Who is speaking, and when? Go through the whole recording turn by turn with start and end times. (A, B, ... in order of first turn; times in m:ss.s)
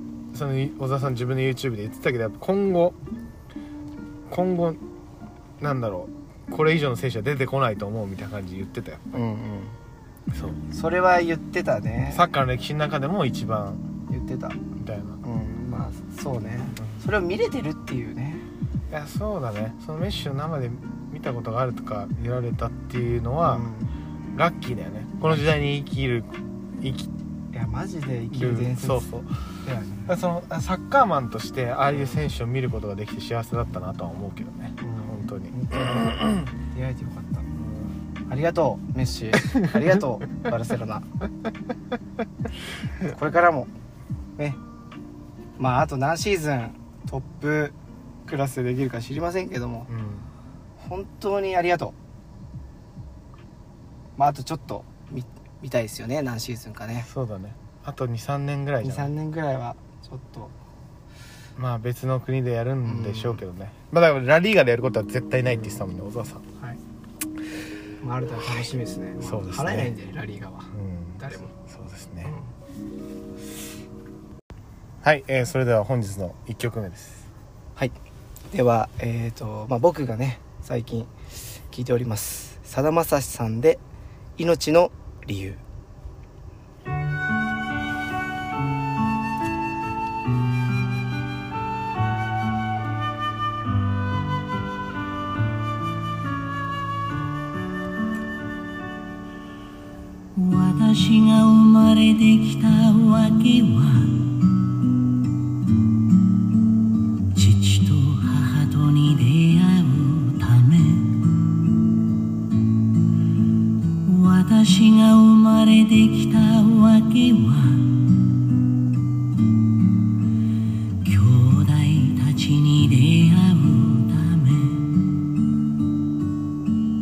0:00.3-0:03.0 A
0:04.3-0:04.8 A
0:05.6-0:09.0 A
0:09.1-0:09.8 B
0:10.3-0:10.6 A
0:10.7-0:12.2 B
0:12.1-0:13.8 A
0:14.1-0:14.6 B
0:14.8-0:15.2 A
0:15.2-0:18.5 B
0:16.8-0:17.0 A
0:18.9-0:23.7 A
0:23.4-0:23.9 B
0:24.4-0:27.1 A
0:27.5-0:29.1 B
0:28.3-0:29.3 A
0:29.6-0:30.1 B
0:30.1-0:36.5 A
0:31.9-0:32.2 B
0:34.8-0:37.5 B
0:37.6-0:37.9 A
0:38.3-0:41.1 B
0:43.0-0:43.7 B
0:45.6-0:47.8 B
0:48.3-0:49.9 B
0:49.9-0:50.3 A
0:50.8-0:52.0 B
0:54.2-0:57.1 B
0:57.0-0:59.1 A
0:58.8-1:00.5 B
1:01.6-1:06.4 A
1:02.8-1:03.4 B
1:08.0-1:11.5 B
1:09.2-1:09.9 A
1:10.7-1:12.3 A
1:12.2-1:12.5 B
1:15.0-1:17.2 A
1:18.5-1:23.8 B
1:24.4-1:25.6 B
1:40.4-1:44.3 C
1:47.4-1:51.2 C
1:54.0-1:58.1 C
2:01.0-2:04.9 C